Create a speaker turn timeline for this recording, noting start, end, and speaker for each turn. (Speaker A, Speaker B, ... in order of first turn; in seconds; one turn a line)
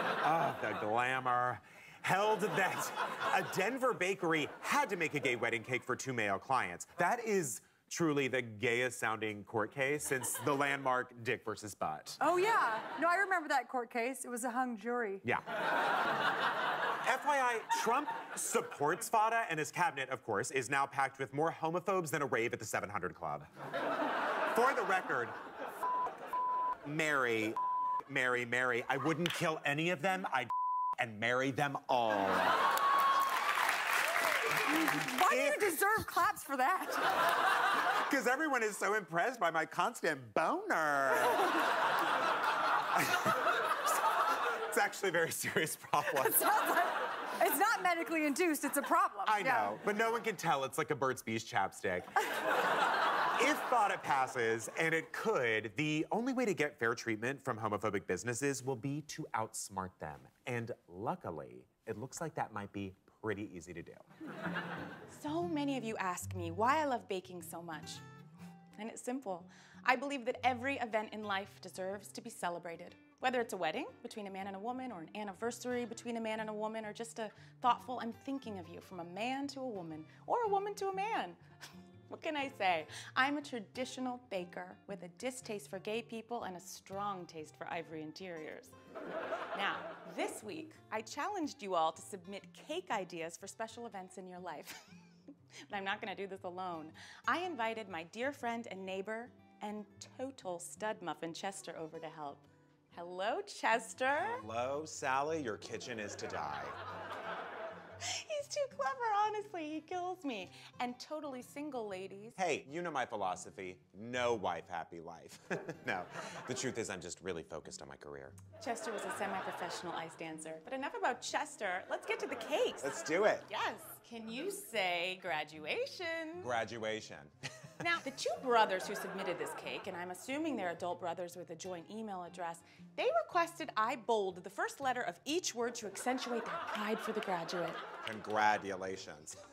Speaker A: 0.2-12.2
Speaker B: 12.2-15.2
Speaker A: 17.0-23.5
Speaker A: 24.5-25.3
Speaker A: 26.8-32.6
Speaker B: 34.7-37.1
Speaker A: 35.3-35.8
Speaker A: 38.0-41.6
Speaker A: 42.9-43.4
Speaker A: 44.4-46.4
Speaker B: 46.1-49.7
Speaker A: 49.2-52.1
Speaker A: 53.3-64.0
Speaker C: 65.1-68.0
Speaker C: 68.8-81.4
Speaker C: 82.1-88.8
Speaker C: 89.5-94.8
Speaker C: 95.7-104.4
Speaker A: 104.2-106.8
Speaker C: 108.0-112.4
Speaker A: 112.4-118.4
Speaker C: 118.6-126.5
Speaker A: 122.8-123.5
Speaker A: 126.4-127.3
Speaker C: 127.8-137.8
Speaker A: 138.0-139.3